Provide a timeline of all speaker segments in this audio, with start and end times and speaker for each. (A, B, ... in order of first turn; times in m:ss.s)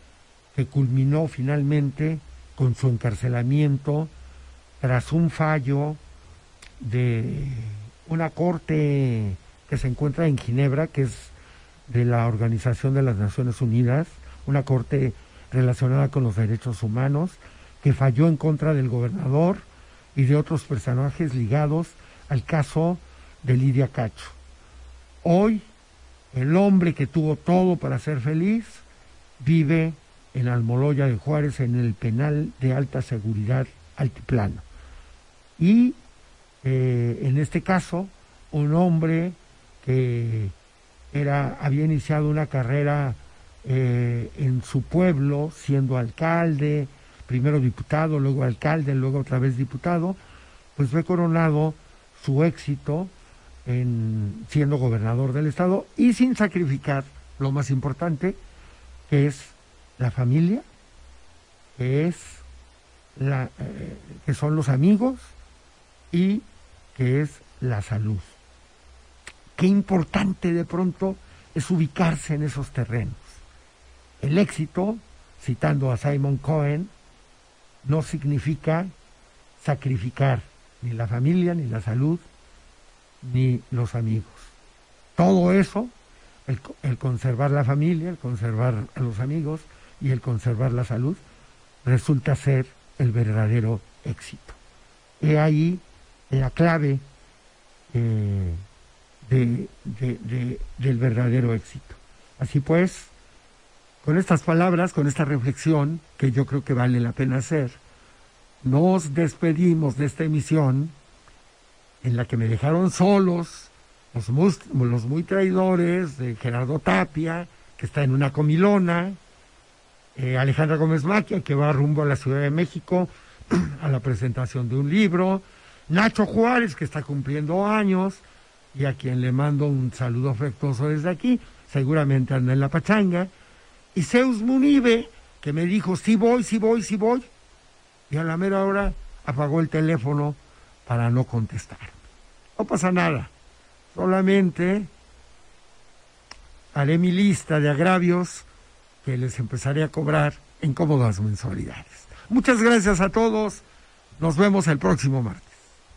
0:00.5-0:04.1 A
0:04.8-0:06.0 A
0:06.8-0:11.3 A
0:11.9-0:24.4 A
0:25.2-0:25.7 A
0:26.3-0:28.8 A
0:29.4-0:34.6 A
0:35.6-0:36.0 A
0:36.6-0:40.5 A
0:41.1-0:50.2 A
0:50.8-0:53.1 A
0:53.6-0:58.4 A
0:59.1-1:00.6 A
1:01.8-1:02.4 A
1:03.2-1:05.3 A
1:06.1-1:08.4 A
1:09.6-1:13.4 A
1:14.2-1:16.9 A
1:17.8-1:18.9 A
1:19.6-1:22.2 A
1:23.2-1:24.5 A
1:25.2-1:25.9 A
1:26.5-1:31.2 A
1:31.8-1:34.6 A
1:35.2-1:37.0 A
1:37.9-1:38.6 A
1:39.2-1:43.1 A
1:44.0-1:47.8 A
1:48.6-1:51.0 A
1:52.0-1:59.2 A
2:00.2-2:13.3 A
2:13.9-2:17.3 A
2:18.1-2:22.0 A
2:22.6-2:23.3 A
2:23.9-2:24.9 A
2:26.7-2:28.5 A
2:29.0-2:33.6 A
2:34.2-2:35.6 A